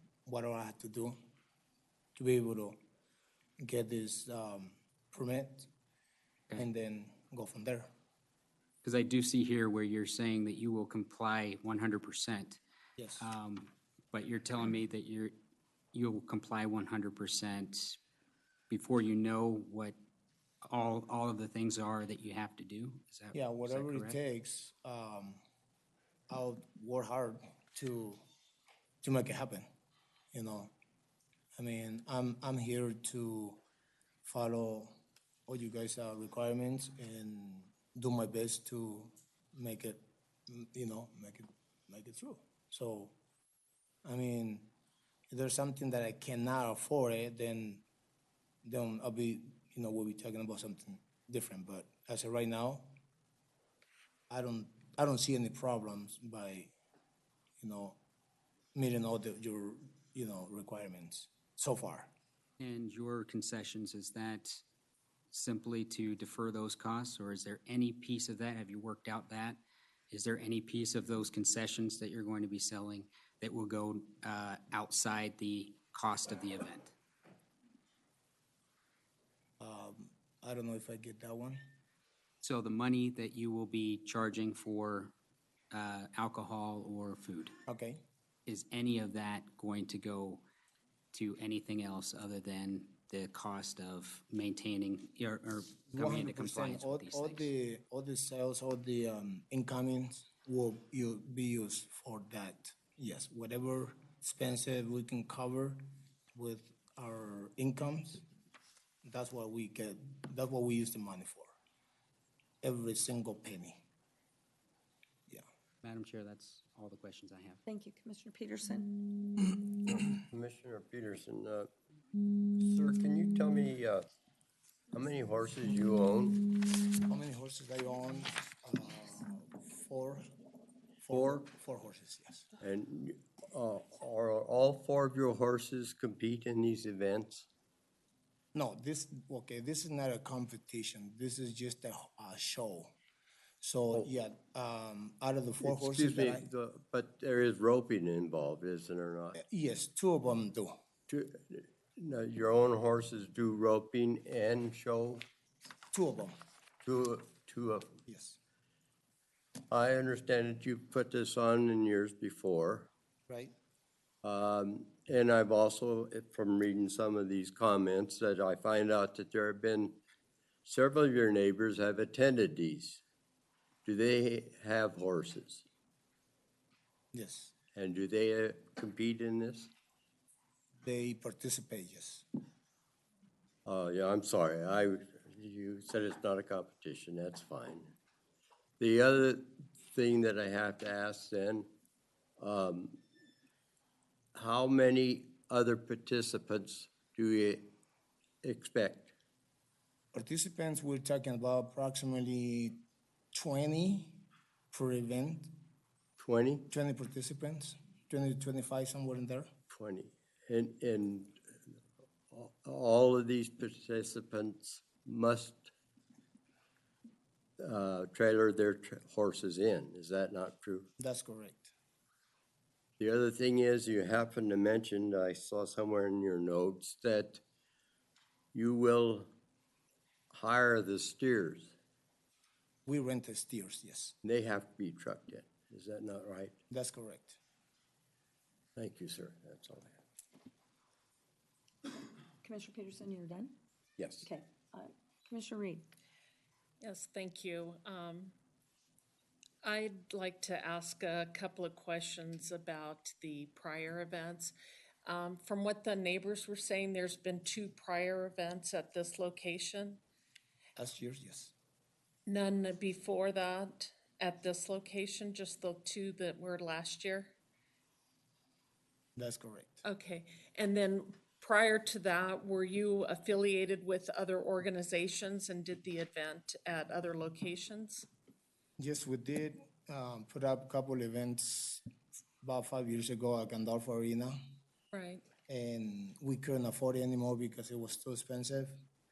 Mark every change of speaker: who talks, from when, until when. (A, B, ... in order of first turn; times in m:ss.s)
0:00.2-0:01.2 A
0:02.2-0:02.8 A
0:03.6-0:05.7 A
0:06.6-0:07.9 A
0:08.8-0:12.6 B
0:13.0-0:13.3 A
0:13.2-0:15.3 B
0:15.9-0:18.0 B
0:18.7-0:20.0 B
0:20.6-0:24.2 B
0:23.3-0:25.4 A
0:26.3-0:28.2 A
0:29.0-0:29.7 A
0:30.3-0:30.7 A
0:31.6-0:33.6 A
0:34.2-0:34.9 A
0:35.5-0:43.1 A
0:44.0-0:44.7 A
0:45.3-0:47.8 A
0:48.6-0:52.9 A
0:54.3-0:56.7 A
0:57.6-0:58.0 A
0:58.7-1:02.1 A
1:02.6-1:04.6 B
1:05.3-1:16.9 B
1:19.6-1:21.6 A
1:22.4-1:25.1 B
1:25.7-1:27.5 B
1:27.7-1:28.0 A
1:28.4-1:30.4 B
1:31.1-1:37.5 B
1:35.9-1:45.8 A
1:46.3-1:48.2 A
1:49.0-1:51.5 A
1:52.6-1:53.8 A
1:55.8-1:57.6 B
1:57.7-1:58.9 C
1:59.9-2:01.7 D
2:02.6-2:04.0 D
2:04.9-2:06.5 D
2:07.1-2:10.2 A
2:11.0-2:12.5 A
2:11.1-2:11.4 D
2:12.6-2:17.4 D
2:18.5-2:22.9 A
2:23.6-2:26.5 A
2:25.6-2:29.4 D
2:29.4-2:30.7 A
2:31.1-2:35.2 D
2:35.9-2:36.4 A
2:36.8-2:38.0 D
2:38.1-2:38.4 A
2:39.7-2:42.9 D
2:43.3-2:43.5 A
2:44.2-2:50.0 D
2:50.6-2:53.0 D
2:53.8-2:55.6 D
2:57.1-2:57.5 A
2:57.7-2:59.7 D
3:00.8-3:02.2 A
3:03.6-3:07.9 D
3:08.8-3:11.7 D
3:12.4-3:13.0 D
3:14.3-3:17.7 D
3:18.4-3:19.1 D
3:20.1-3:22.8 A
3:23.3-3:25.5 A
3:26.2-3:26.7 D
3:26.7-3:29.5 A
3:29.7-3:31.4 D
3:32.3-3:35.7 D
3:37.6-3:40.9 D
3:41.0-3:41.7 A
3:43.0-3:47.4 D
3:48.5-3:49.3 D
3:50.3-3:51.7 D
3:52.8-3:54.2 A
3:54.2-3:56.6 D
3:56.7-3:57.4 A
3:58.8-3:59.9 D
4:02.4-4:03.5 C
4:04.0-4:04.3 D
4:04.2-4:05.9 C
4:06.8-4:08.3 E
4:09.6-4:14.5 E
4:15.0-4:20.0 E
4:20.8-4:21.5 A
4:22.3-4:27.3 E
4:29.2-4:29.8 A
4:29.8-4:38.0 E
4:38.8-4:41.8 A
4:42.4-4:44.4 A
4:44.9-4:45.2 E
4:45.5-4:48.7 A